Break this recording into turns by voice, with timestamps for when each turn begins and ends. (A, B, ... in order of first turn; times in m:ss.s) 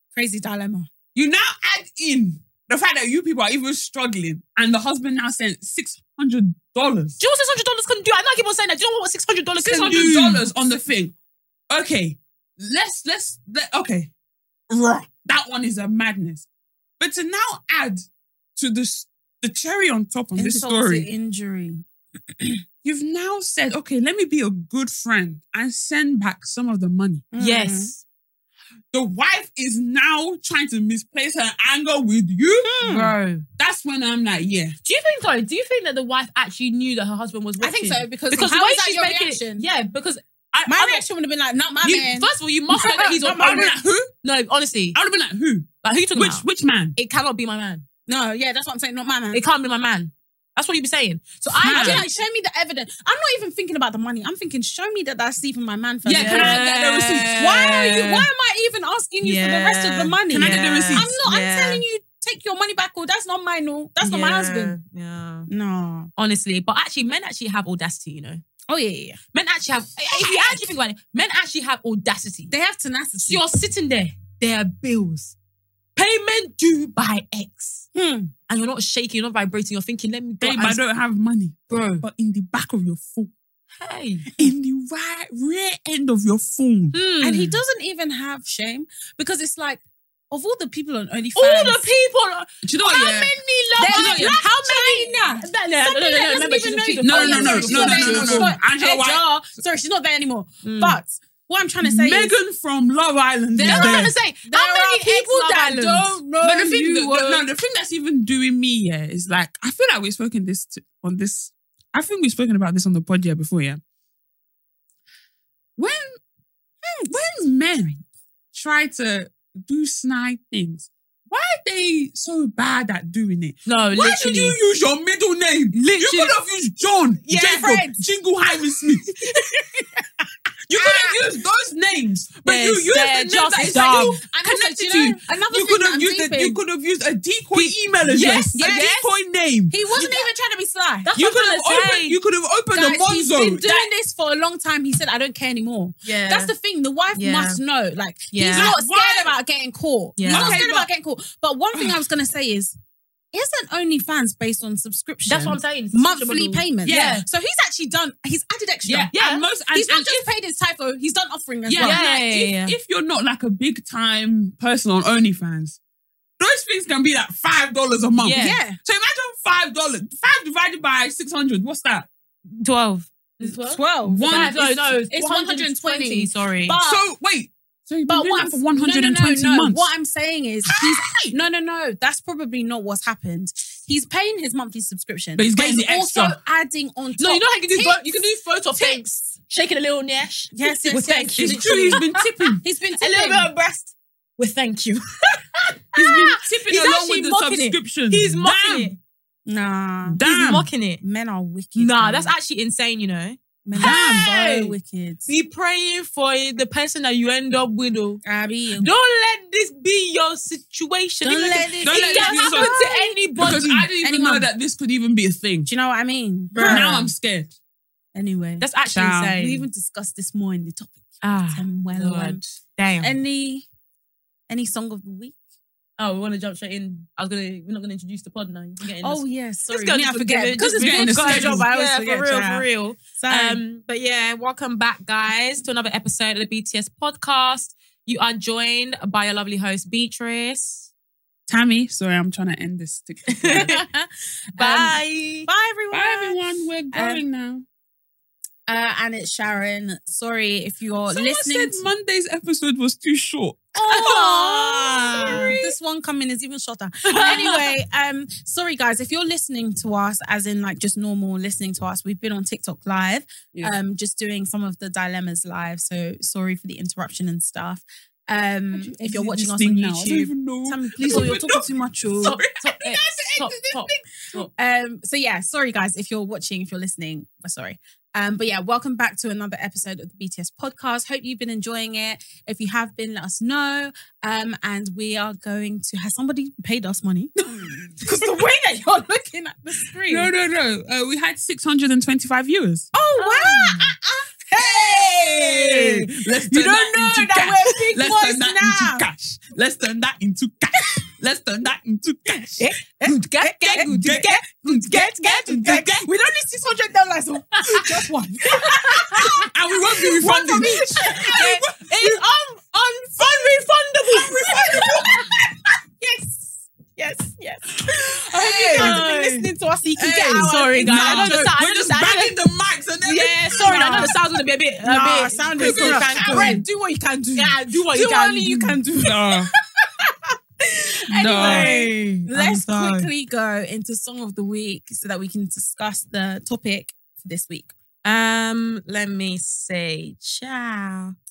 0:00.1-0:00.9 A
0:01.2-0:07.2 B
0:07.2-0:10.5 C
0:09.6-0:11.1 B
0:11.7-0:14.1 B
0:14.7-0:16.5 B
0:17.0-0:18.0 B
0:18.6-0:21.1 B
0:20.4-0:21.8 A
0:22.4-0:22.6 A
0:22.8-0:27.3 B
0:27.3-0:27.9 A
0:27.4-0:28.0 C
0:28.9-0:32.7 B
0:32.6-0:33.2 A
0:32.8-0:33.4 C
0:33.6-0:34.8 B
0:34.8-0:41.0 C
0:37.6-0:39.6 A
0:40.7-0:43.8 A
0:41.8-0:43.7 C
0:43.0-0:44.1 B
0:44.2-0:45.0 C
0:44.9-0:47.0 B
0:45.8-0:47.9 C
0:48.1-0:49.4 A
0:49.3-0:52.1 C
0:51.6-0:52.0 B
0:51.6-0:56.6 A
0:56.1-0:58.0 B
0:56.1-0:58.2 C
0:57.4-1:04.8 A
0:59.2-1:01.8 C
1:00.3-1:01.1 B
1:04.0-1:05.5 C
1:05.5-1:06.1 A
1:06.2-1:08.4 C
1:08.7-1:09.2 A
1:09.3-1:12.5 C
1:10.2-1:10.6 A
1:12.5-1:13.4 A
1:13.2-1:15.4 C
1:16.0-1:17.9 C
1:18.0-1:18.3 A
1:18.5-1:20.8 C
1:20.4-1:23.3 B
1:21.7-1:22.0 C
1:23.8-1:24.3 C
1:24.4-1:27.0 B
1:26.9-1:27.6 C
1:27.2-1:31.8 A
1:31.4-1:38.6 C
1:32.6-1:33.4 B
1:33.8-1:42.4 A
1:33.9-1:34.3 B
1:37.0-1:39.2 B
1:40.6-1:41.0 C
1:41.8-1:44.1 B
1:43.6-1:46.2 C
1:43.6-1:47.4 A
1:46.4-1:53.8 B
1:55.8-1:56.2 B
1:56.8-1:57.2 A
1:57.1-1:58.0 B
1:58.5-2:09.2 B
2:03.6-2:04.6 C
2:05.7-2:06.3 C
2:07.3-2:08.0 A
2:09.2-2:10.0 A
2:10.7-2:19.8 B
2:10.8-2:11.2 A
2:12.4-2:14.2 C
2:13.6-2:16.6 A
2:17.5-2:18.7 C
2:18.5-2:19.1 A
2:19.7-2:21.1 A
2:21.1-2:22.2 C
2:21.2-2:23.9 B
2:22.7-2:32.8 A
2:26.0-2:26.5 C
2:27.2-2:27.6 C
2:28.3-2:28.8 C
2:28.5-2:29.3 B
2:30.2-2:30.6 C
2:30.3-2:30.9 B
2:33.3-2:39.1 A
2:35.3-2:37.2 C
2:36.8-2:37.2 B
2:38.8-2:40.3 B
2:39.1-2:39.4 C
2:39.7-2:42.0 A
2:41.7-2:45.8 B
2:41.8-2:42.8 C
2:46.4-2:52.1 B
2:48.2-2:48.6 C
2:48.4-2:48.8 A
2:52.5-2:56.8 C
2:53.4-2:57.0 A
2:54.0-2:55.0 B
2:56.8-2:59.9 B
2:58.1-3:08.2 A
3:05.4-3:06.4 B
3:07.2-3:12.2 C
3:08.7-3:09.1 A
3:10.5-3:12.1 A
3:11.4-3:12.6 B
3:12.6-3:13.9 A
3:13.0-3:19.0 C
3:16.0-3:18.9 B
3:19.5-3:20.2 A
3:20.1-3:20.7 B
3:20.2-3:21.0 C
3:21.0-3:22.3 A
3:21.8-3:24.7 C
3:23.6-3:25.3 A
3:23.8-3:24.7 B
3:25.3-3:28.2 C
3:28.2-3:28.9 A
3:28.8-3:33.9 C
3:31.2-3:34.5 A
3:31.8-3:32.8 B
3:33.4-3:35.7 B
3:35.7-3:37.1 A
3:36.5-3:37.0 C
3:36.6-3:37.5 B
3:38.1-3:38.7 A
3:38.6-3:39.7 C
3:38.9-3:39.4 B
3:39.4-3:42.4 A
3:41.2-3:43.1 C
3:43.0-3:43.7 A
3:44.5-3:45.4 A
3:46.0-4:00.9 C
3:49.0-3:53.6 A
3:50.6-3:51.7 B
4:01.5-4:03.7 B
4:03.3-4:03.8 C
4:03.5-4:06.4 A
4:04.6-4:05.5 C
4:05.9-4:07.6 B
4:06.9-4:07.2 A
4:08.7-4:11.8 A
4:11.1-4:15.7 B
4:13.8-4:15.6 C
4:13.8-4:32.4 A
4:17.1-4:17.7 C
4:28.7-4:34.0 B
4:32.2-4:34.5 C
4:34.4-4:47.3 A
4:47.4-4:48.3 B
4:48.0-4:50.3 A
4:50.1-4:52.9 B
4:52.9-4:59.0 A
4:53.2-4:53.8 C
4:54.6-5:02.7 B
5:02.6-5:09.5 A
5:03.0-5:05.8 C
5:03.9-5:06.1 B
5:09.2-5:12.1 B
5:10.0-5:11.6 A
5:10.2-5:14.8 C
5:14.2-5:15.3 B
5:14.5-5:15.2 A
5:16.0-5:21.5 A
5:17.9-5:19.0 B
5:18.7-5:19.5 C
5:20.0-5:24.2 B
5:20.3-5:22.4 C
5:23.0-5:26.6 C
5:23.6-5:24.2 A
5:24.8-5:37.7 A
5:25.6-5:26.6 B
5:27.4-5:28.7 C
5:28.7-5:29.5 B
5:31.1-5:31.7 B
5:31.3-5:33.1 C
5:38.0-5:41.2 C